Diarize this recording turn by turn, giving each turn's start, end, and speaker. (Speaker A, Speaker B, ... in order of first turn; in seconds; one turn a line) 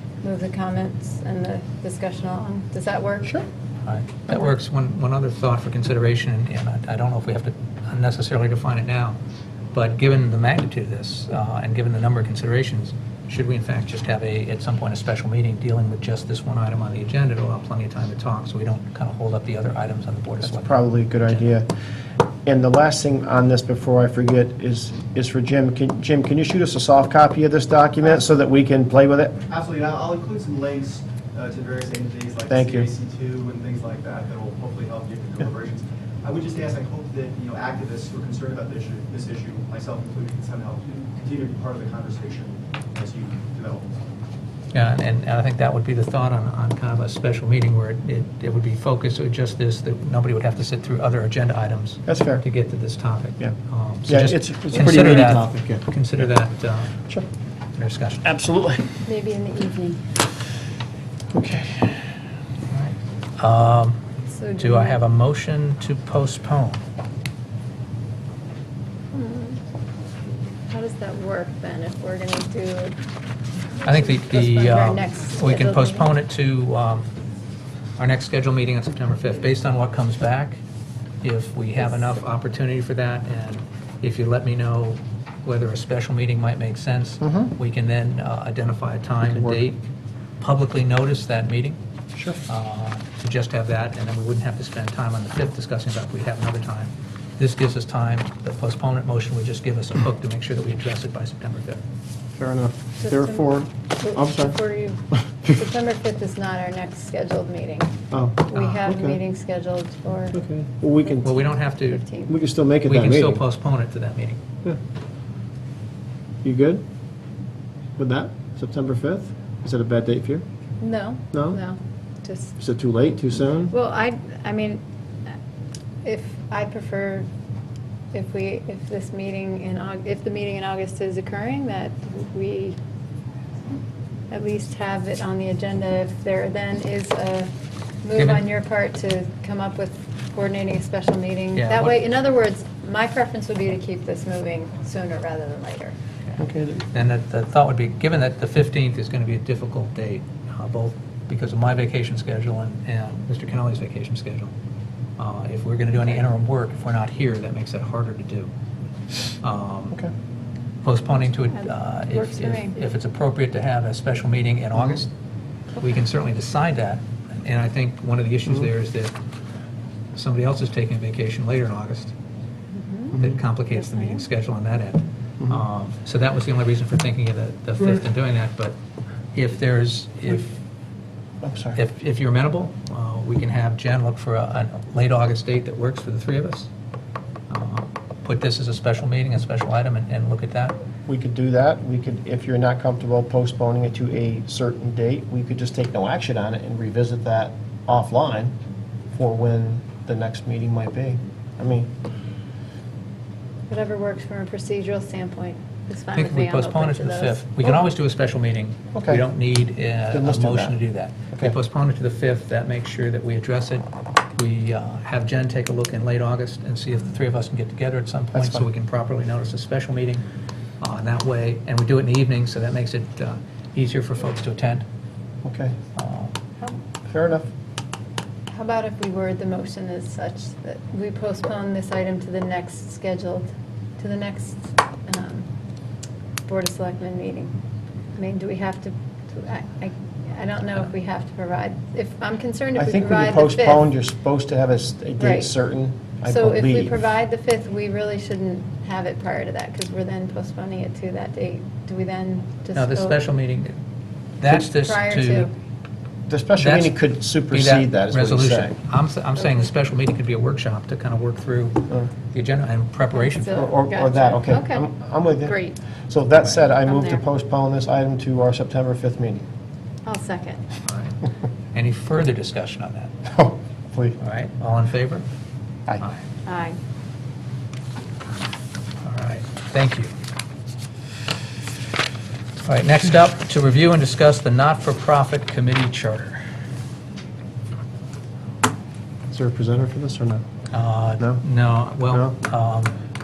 Speaker A: 0.2-3.3
Speaker B: 3.9-9.2
Speaker B: 9.7-21.5
Speaker C: 20.4-21.7
Speaker C: 22.4-29.4
Speaker D: 29.5-44.0
Speaker C: 32.5-32.9
Speaker B: 44.7-57.0
Speaker C: 52.1-52.4
Speaker C: 54.1-55.9
Speaker B: 57.8-58.2
Speaker C: 58.2-58.9
Speaker A: 59.1-60.0
Speaker C: 61.3-61.9
Speaker B: 62.7-64.0
Speaker A: 64.3-65.0
Speaker B: 64.6-66.8
Speaker A: 69.1-69.6
Speaker A: 70.7-73.0
Speaker B: 73.8-77.1
Speaker A: 73.8-76.1
Speaker B: 78.0-80.6
Speaker B: 81.2-89.8
Speaker C: 87.2-87.5
Speaker C: 89.2-89.6
Speaker B: 90.4-91.8
Speaker C: 92.2-92.4
Speaker B: 92.5-101.8
Speaker C: 102.3-104.6
Speaker A: 103.0-103.5
Speaker A: 104.0-107.9
Speaker C: 105.1-105.6
Speaker C: 108.1-109.2
Speaker A: 108.5-110.4
Speaker B: 108.5-108.9
Speaker C: 110.3-111.5
Speaker B: 111.2-112.0
Speaker A: 111.8-112.3
Speaker C: 112.3-113.5
Speaker B: 112.8-114.4
Speaker C: 116.4-116.8
Speaker C: 118.0-120.4
Speaker A: 120.8-122.5
Speaker C: 121.3-121.6
Speaker C: 122.6-123.7
Speaker A: 123.7-124.8
Speaker A: 126.0-127.3
Speaker A: 128.1-132.8
Speaker A: 134.3-137.5
Speaker A: 138.0-145.9
Speaker B: 138.2-138.5
Speaker B: 141.5-142.0
Speaker C: 146.4-146.8
Speaker B: 146.9-154.5
Speaker B: 155.2-158.5
Speaker B: 159.4-160.0
Speaker B: 160.8-165.1
Speaker A: 161.5-162.8
Speaker B: 165.8-169.1
Speaker B: 170.2-172.1
Speaker A: 172.7-173.2
Speaker C: 173.2-173.4
Speaker B: 173.2-178.8
Speaker A: 173.7-174.2
Speaker B: 179.3-180.6
Speaker C: 181.4-181.8
Speaker B: 181.8-186.7
Speaker B: 187.5-190.8
Speaker C: 191.1-198.5
Speaker C: 199.1-201.9
Speaker A: 203.7-207.4
Speaker B: 206.1-213.9
Speaker C: 208.9-209.2
Speaker C: 210.1-210.8
Speaker B: 214.4-220.2
Speaker C: 218.3-218.7
Speaker B: 220.8-224.8
Speaker C: 225.4-225.8
Speaker B: 226.0-226.4
Speaker C: 227.1-227.5
Speaker A: 228.5-235.5
Speaker A: 236.5-237.6
Speaker A: 238.2-243.8
Speaker C: 242.8-247.0
Speaker A: 245.2-245.5
Speaker A: 246.3-253.2
Speaker B: 252.8-253.8
Speaker B: 254.4-255.5
Speaker A: 254.5-255.5
Speaker C: 256.3-258.7
Speaker B: 256.6-263.8
Speaker A: 263.2-264.9
Speaker C: 263.5-269.4
Speaker A: 265.4-265.8
Speaker A: 266.9-267.2
Speaker A: 270.1-270.6
Speaker B: 270.9-271.2
Speaker B: 271.7-273.1
Speaker C: 273.3-274.2
Speaker B: 274.2-275.2
Speaker A: 276.4-276.8
Speaker B: 279.0-280.1
Speaker B: 282.6-286.4
Speaker C: 289.3-290.4
Speaker B: 290.7-293.0
Speaker C: 292.1-292.3